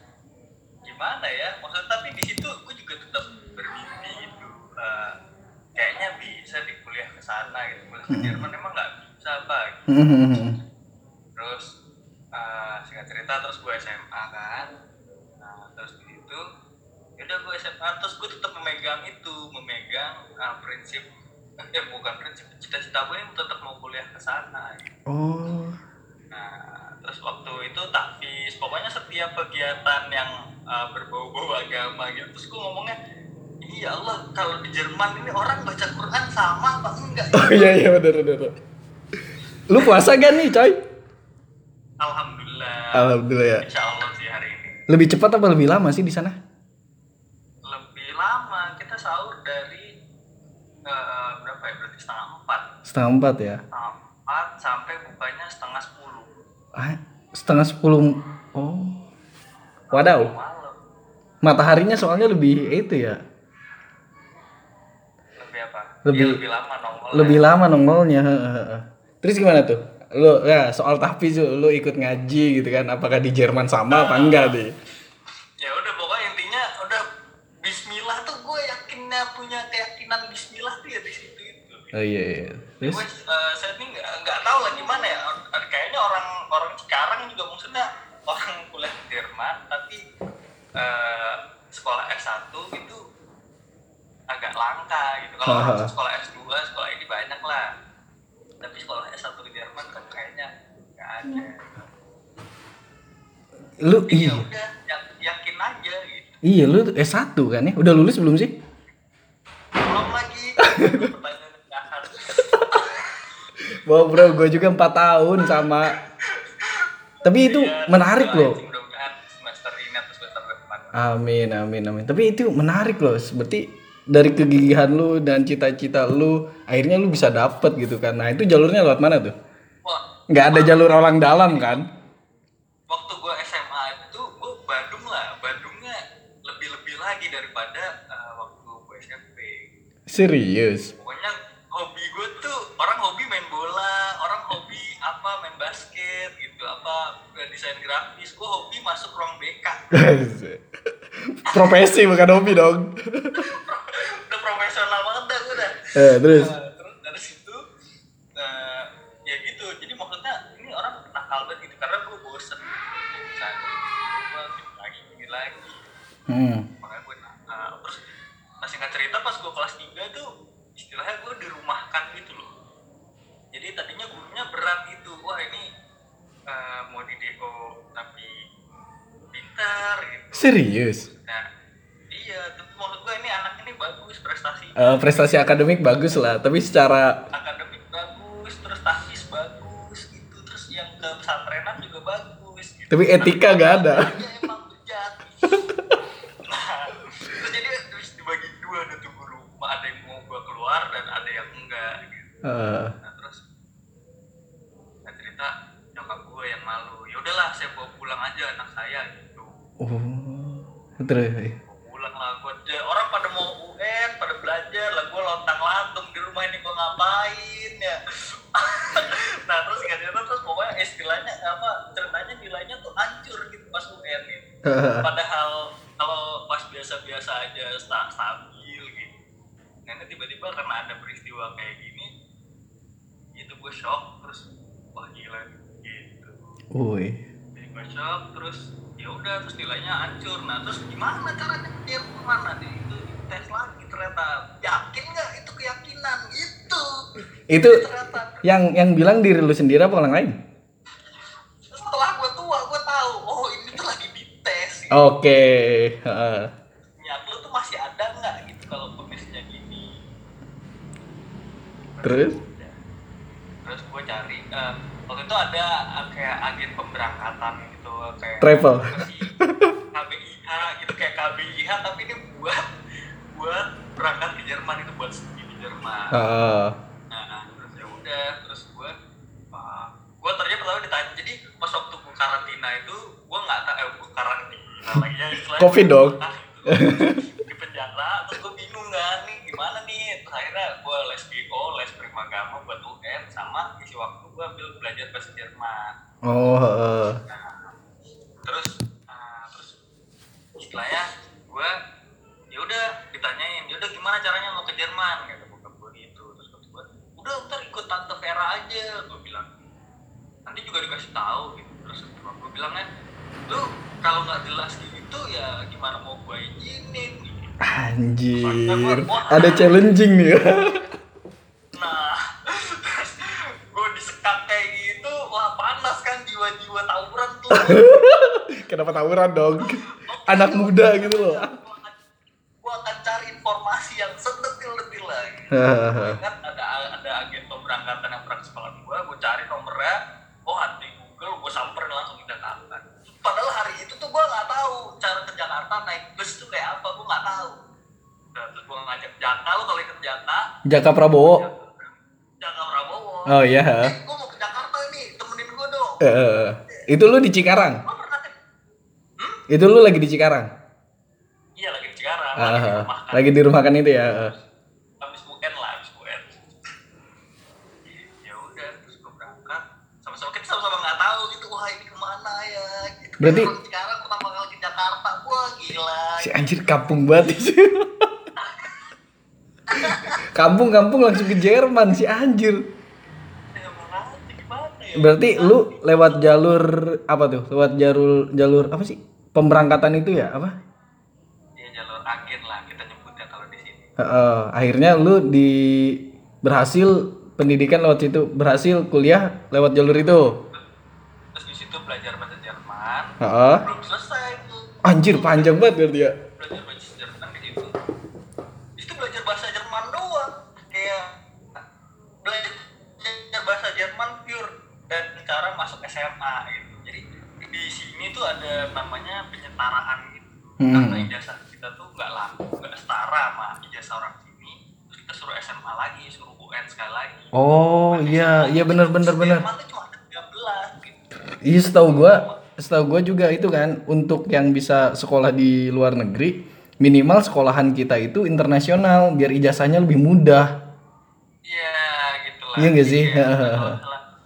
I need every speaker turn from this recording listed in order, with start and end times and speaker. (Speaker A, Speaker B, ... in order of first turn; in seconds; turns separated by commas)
Speaker A: 0.8-5.1, Speaker A: 5.8-10.6, Speaker B: 8.1-8.4, Speaker B: 9.9-10.6, Speaker A: 11.4-11.7, Speaker A: 12.3-14.7, Speaker A: 15.4-16.4, Speaker A: 17.2-21.1, Speaker A: 21.7-24.9, Speaker B: 25.1-25.8, Speaker A: 26.3-33.0, Speaker A: 33.6-37.7, Speaker B: 37.3-38.5, Speaker B: 39.7-40.8, Speaker A: 42.0-43.1, Speaker B: 42.9-43.6, Speaker A: 43.6-44.8, Speaker B: 44.9-46.4, Speaker A: 47.7-49.9, Speaker A: 50.9-52.6, Speaker B: 52.9-53.6, Speaker A: 53.7-56.3, Speaker B: 56.8-59.0, Speaker A: 59.9-60.8, Speaker B: 59.9-60.3, Speaker B: 61.4-63.2, Speaker A: 65.4-67.5, Speaker B: 66.1-66.4, Speaker B: 67.1-74.7, Speaker A: 73.9-74.6, Speaker A: 75.6-77.0, Speaker A: 77.6-81.9, Speaker B: 81.9-83.0, Speaker A: 82.8-90.0, Speaker A: 90.8-93.0, Speaker A: 94.3-97.7, Speaker B: 95.5-95.9, Speaker A: 98.6-101.8, Speaker B: 103.8-104.5, Speaker A: 104.1-106.4, Speaker B: 106.4-108.5, Speaker A: 109.8-113.5, Speaker B: 110.7-111.1, Speaker B: 113.8-116.0, Speaker A: 116.2-120.9, Speaker B: 117.2-118.6, Speaker B: 120.9-129.3, Speaker A: 129.8-130.9, Speaker B: 130.3-131.9, Speaker A: 131.4-131.8, Speaker A: 132.9-139.7, Speaker B: 140.1-140.9, Speaker A: 140.9-149.8, Speaker B: 149.9-150.6, Speaker B: 151.2-153.5, Speaker A: 151.5-151.9, Speaker A: 153.3-157.6, Speaker B: 155.9-156.5, Speaker A: 158.4-165.8, Speaker B: 166.3-166.7, Speaker A: 166.8-168.0, Speaker A: 168.6-172.5, Speaker A: 173.5-175.7, Speaker A: 176.5-178.3, Speaker A: 179.3-181.4, Speaker B: 180.4-181.1, Speaker A: 182.1-185.5, Speaker B: 184.8-187.2, Speaker A: 187.3-195.6, Speaker B: 192.9-194.1, Speaker A: 196.5-202.3, Speaker B: 202.4-202.9, Speaker A: 203.0-203.4, Speaker A: 205.1-209.5, Speaker B: 209.8-211.6, Speaker A: 211.7-218.0, Speaker A: 218.5-224.5, Speaker B: 224.7-225.1, Speaker A: 225.0-229.1, Speaker A: 229.9-232.1, Speaker A: 233.4-236.5, Speaker B: 236.7-237.2, Speaker A: 237.6-246.9, Speaker B: 247.5-247.8, Speaker A: 247.6-248.4, Speaker B: 248.4-250.4, Speaker A: 251.7-255.0, Speaker B: 254.9-256.5, Speaker A: 257.0-259.9, Speaker A: 261.9-262.8, Speaker B: 262.0-262.4, Speaker A: 263.6-269.3, Speaker B: 268.4-269.7, Speaker A: 269.9-272.6, Speaker A: 273.3-276.2, Speaker B: 276.1-276.8, Speaker A: 277.1-278.9, Speaker A: 279.5-295.9, Speaker B: 285.6-286.2, Speaker B: 286.7-287.2, Speaker B: 296.2-297.2, Speaker A: 297.3-297.7, Speaker A: 298.4-299.8, Speaker A: 300.6-301.7, Speaker A: 302.5-309.5, Speaker A: 310.5-312.9, Speaker A: 313.5-317.5, Speaker B: 317.6-320.8, Speaker A: 318.4-319.8, Speaker A: 321.8-327.9, Speaker B: 327.5-331.5, Speaker A: 329.6-332.0, Speaker A: 332.6-340.0, Speaker B: 335.5-336.2, Speaker A: 340.5-347.6, Speaker A: 348.4-350.5, Speaker B: 350.7-351.4, Speaker A: 351.1-356.0, Speaker B: 353.3-353.9, Speaker B: 356.0-357.8, Speaker A: 357.8-358.4, Speaker B: 359.5-360.5, Speaker A: 361.6-363.3, Speaker B: 362.4-364.3, Speaker A: 365.0-366.4, Speaker A: 368.2-376.7, Speaker B: 373.2-373.5, Speaker B: 376.2-378.1, Speaker A: 378.4-378.9, Speaker A: 379.7-380.2, Speaker B: 379.8-382.6, Speaker A: 383.5-386.3, Speaker B: 385.0-390.5, Speaker A: 391.6-393.9, Speaker B: 394.0-400.4, Speaker A: 401.3-405.6, Speaker B: 403.2-403.6, Speaker B: 404.9-406.1, Speaker A: 406.4-407.7, Speaker A: 408.8-411.2, Speaker A: 412.2-427.3, Speaker B: 420.6-421.1, Speaker B: 427.3-429.4, Speaker A: 427.9-431.0, Speaker B: 431.4-440.5, Speaker A: 431.6-432.4, Speaker A: 441.5-444.0, Speaker B: 442.6-443.8